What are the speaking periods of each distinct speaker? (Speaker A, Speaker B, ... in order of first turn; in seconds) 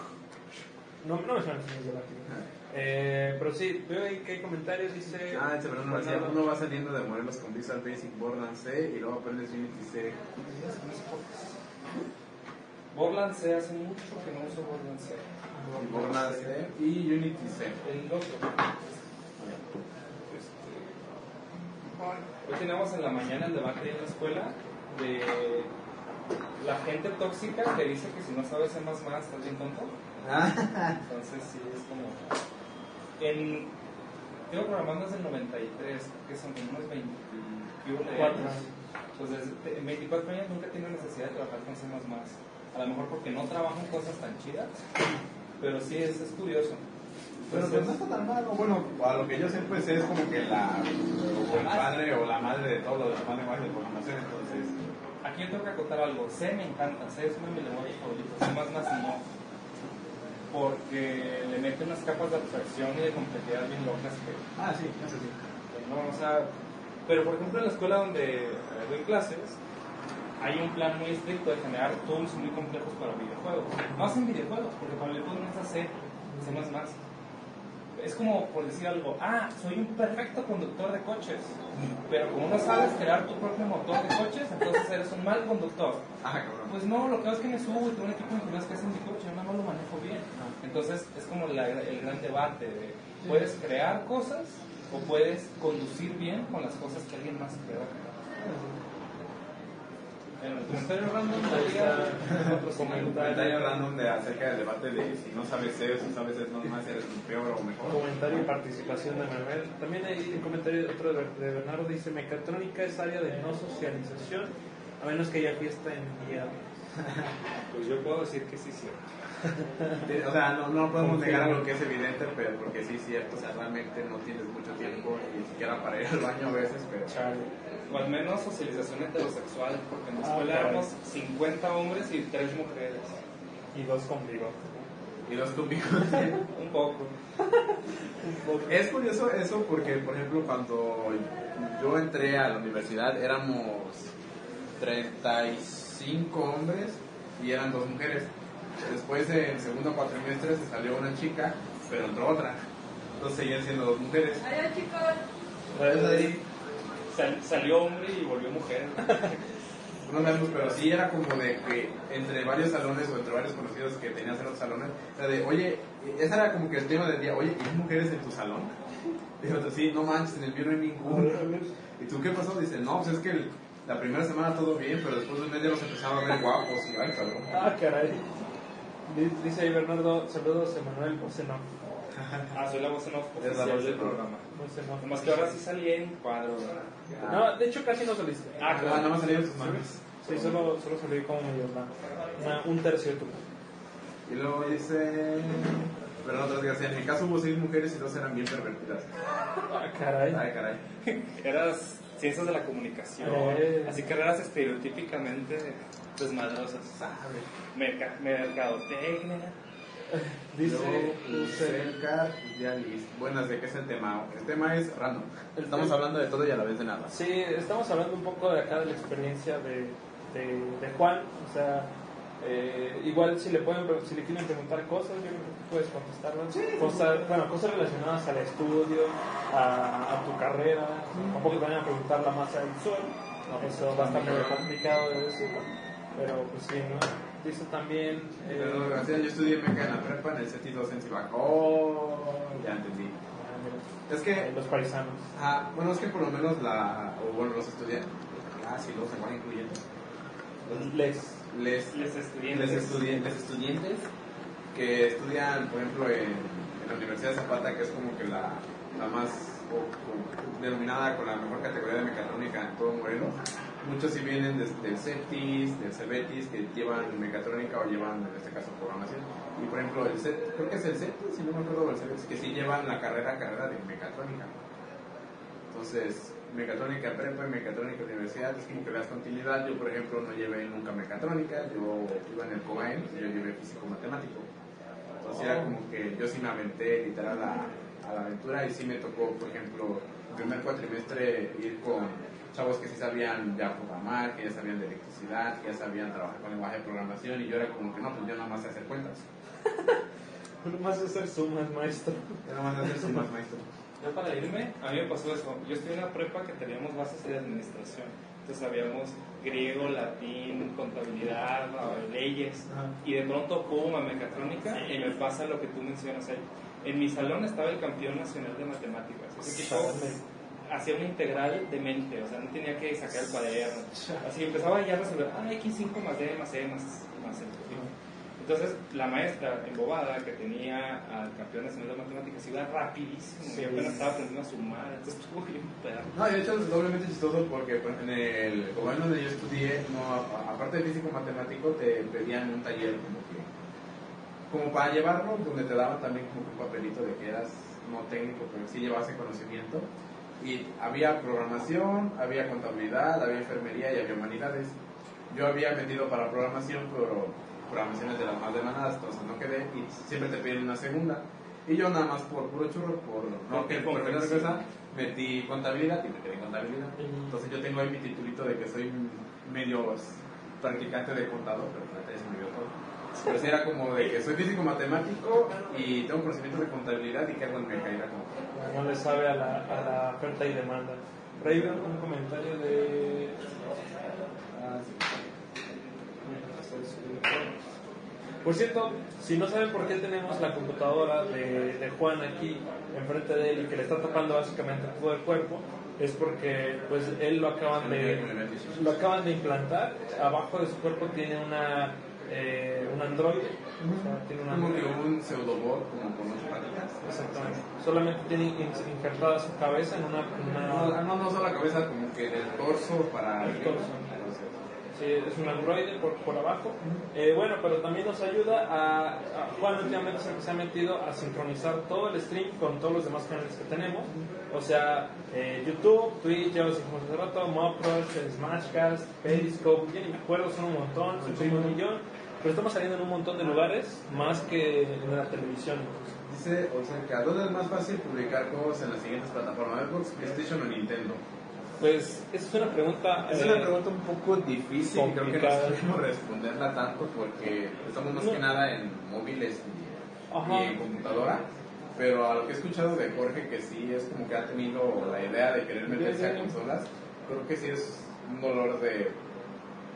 Speaker A: 1.0-6.3, 38.1-38.7, 47.5-47.9, 101.4-103.7, 107.9-116.6, 119.6-120.0, 121.0-121.6, 127.1-127.5, 130.2-130.9, 133.7-134.9, 138.2-138.7, 155.7-156.4, 171.1-171.7, 177.5-178.4, 179.1-181.7, 184.5-185.5, 187.2-193.4, 199.6-200.4, 203.2-204.0, 210.1-211.9, 215.5-215.9, 217.1-239.0, 243.3-245.3, 250.7-251.4, 299.7-300.0, 300.6-302.4, 314.8-315.1, 319.4-320.2, 333.4-334.1, 363.5-364.5, 367.0-367.4, 378.5-383.5, 386.2-387.5, 388.4-404.9, 407.0-411.0, 413.4-414.1, 414.9-436.2, 441.8-443.7, 444.8-445.8, 448.2-448.4, 450.3-450.8, 455.9-456.6
Speaker B: 5.3-10.2, 15.7-17.8, 19.4-19.7, 30.2-31.0, 47.4-54.9, 64.5-65.3, 81.7-82.0, 86.2-86.7, 103.0-108.0, 117.0-117.3, 120.0-127.2, 135.2-136.4, 138.7-144.1, 144.8-152.6, 153.2-154.5, 155.8-156.4, 160.0-168.7, 169.4-171.4, 172.0-177.6, 182.2-182.5, 183.4-184.2, 187.2-187.5, 188.7-190.6, 194.2-199.1, 200.3-200.8, 206.9-207.5, 210.6-217.1, 226.5-227.1, 231.1-231.5, 233.5-234.7, 238.4-243.2, 244.1-244.5, 245.3-249.8, 250.7-250.9, 251.5-254.1, 254.7-274.6, 275.7-284.5, 285.2-299.2, 302.4-303.7, 336.1-343.5, 344.5-354.8, 355.3-378.4, 381.4-381.8, 384.5-385.2, 397.7-399.0, 403.8-407.6, 410.5-414.6, 416.8-417.0, 431.2-431.8, 436.3-441.2, 443.2-459.2
Speaker C: 10.4-11.6, 12.9-16.6, 17.8-18.6, 20.3-20.8, 22.3-25.7, 26.6-29.9, 31.0-32.4, 33.2-33.7, 34.5-44.7, 45.6-46.8, 51.5-52.0, 55.2-59.2, 60.5-64.4, 65.7-66.5, 67.0-69.6, 70.4-77.0, 77.9-86.0, 86.7-98.1, 100.4-103.5, 117.7-119.0, 127.9-133.2, 136.5-137.1, 155.9-156.3, 157.1-159.4, 182.5-184.4, 185.0-187.0, 201.0-207.0, 207.7-209.6, 251.9-253.4, 304.0-320.1, 320.7-327.8, 328.4-336.2, 363.6-364.1